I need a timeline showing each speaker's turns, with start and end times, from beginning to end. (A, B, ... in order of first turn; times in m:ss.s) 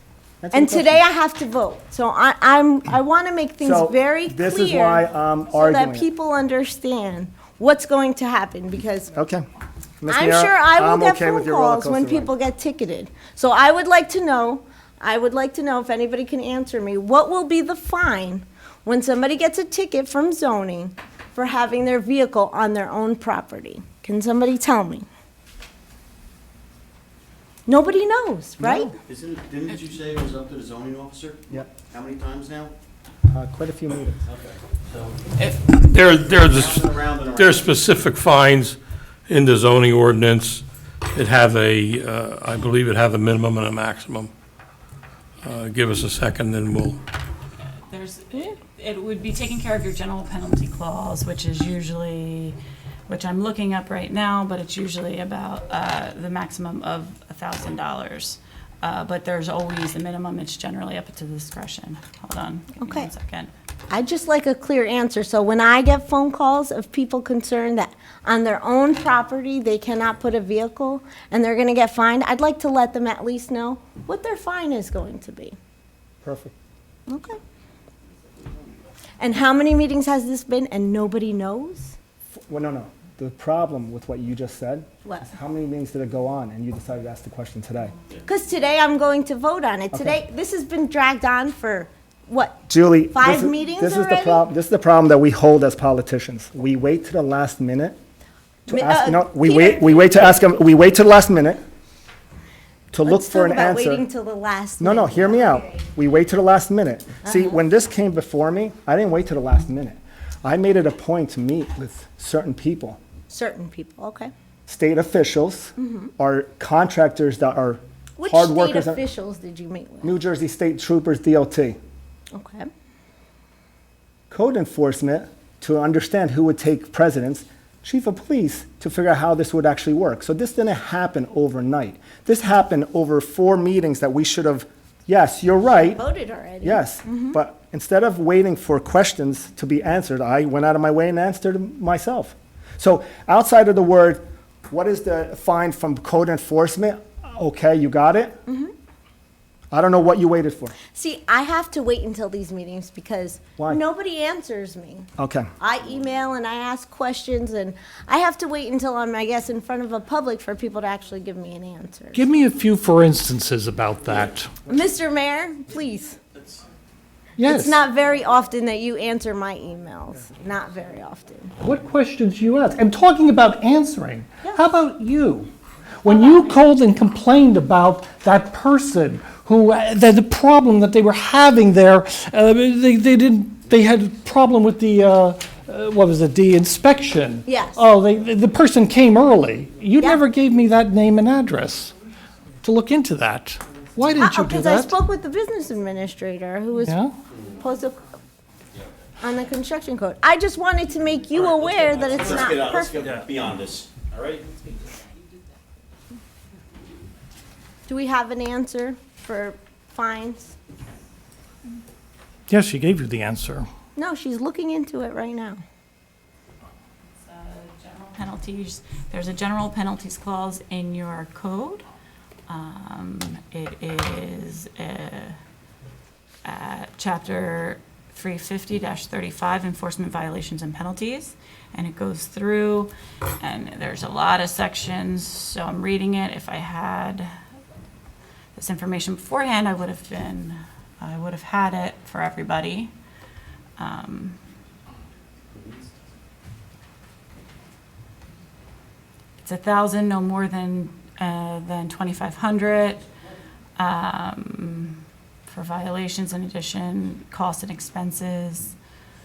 0:00.4-0:01.0 A
0:00.5-0:09.1 B
0:03.6-0:06.1 A
0:09.1-0:09.4 A
0:10.0-0:12.3 A
0:10.1-0:25.1 B
0:27.7-0:29.0 B
0:28.6-0:28.9 A
0:29.1-0:32.7 C
0:33.3-0:34.2 A
0:34.3-0:35.2 C
0:35.7-0:44.3 D
0:36.2-0:37.9 C
0:45.4-0:47.0 D
0:47.9-0:52.6 E
0:53.1-1:03.5 E
1:02.8-1:03.1 B
1:03.9-1:15.6 B
1:16.2-1:16.5 A
1:17.1-1:17.4 B
1:19.2-1:22.0 B
1:22.4-1:27.9 A
1:25.0-1:25.3 B
1:28.2-1:34.4 B
1:29.9-1:30.2 A
1:32.7-1:38.0 A
1:38.7-1:40.4 B
1:38.7-1:41.6 A
1:42.9-1:44.0 A
1:43.0-1:45.8 B
1:44.8-1:53.0 A
1:47.2-1:47.5 B
1:53.3-1:54.3 B
1:54.7-1:59.0 A
1:55.8-1:56.1 B
1:58.2-2:00.2 B
2:00.0-2:01.8 A
2:02.3-2:02.7 B
2:04.3-2:16.0 A
2:15.8-2:17.4 B
2:16.6-2:28.4 A
2:28.5-2:28.7 B
2:29.7-2:30.8 A
2:30.9-2:35.1 B
2:35.2-2:35.5 A
2:35.6-2:42.3 B
2:42.1-2:44.5 F
2:44.7-2:46.2 B
2:47.4-2:47.8 F
2:47.4-2:51.5 B
2:51.6-2:55.5 F
2:56.0-3:11.9 F
3:07.5-3:07.9 B
3:10.0-3:10.2 B
3:12.6-3:15.0 F
3:14.2-3:17.0 B
3:16.8-3:17.2 F
3:17.6-3:18.1 B
3:19.2-3:23.1 B
3:21.4-3:24.5 C
3:27.9-3:30.6 B
3:32.5-3:33.7 F
3:34.0-3:35.6 B
3:37.2-3:41.8 E
3:42.5-3:45.4 E
3:46.4-3:57.3 E
3:58.6-4:02.9 E
4:03.8-4:04.4 E
4:09.4-4:13.0 E
4:13.8-4:18.8 E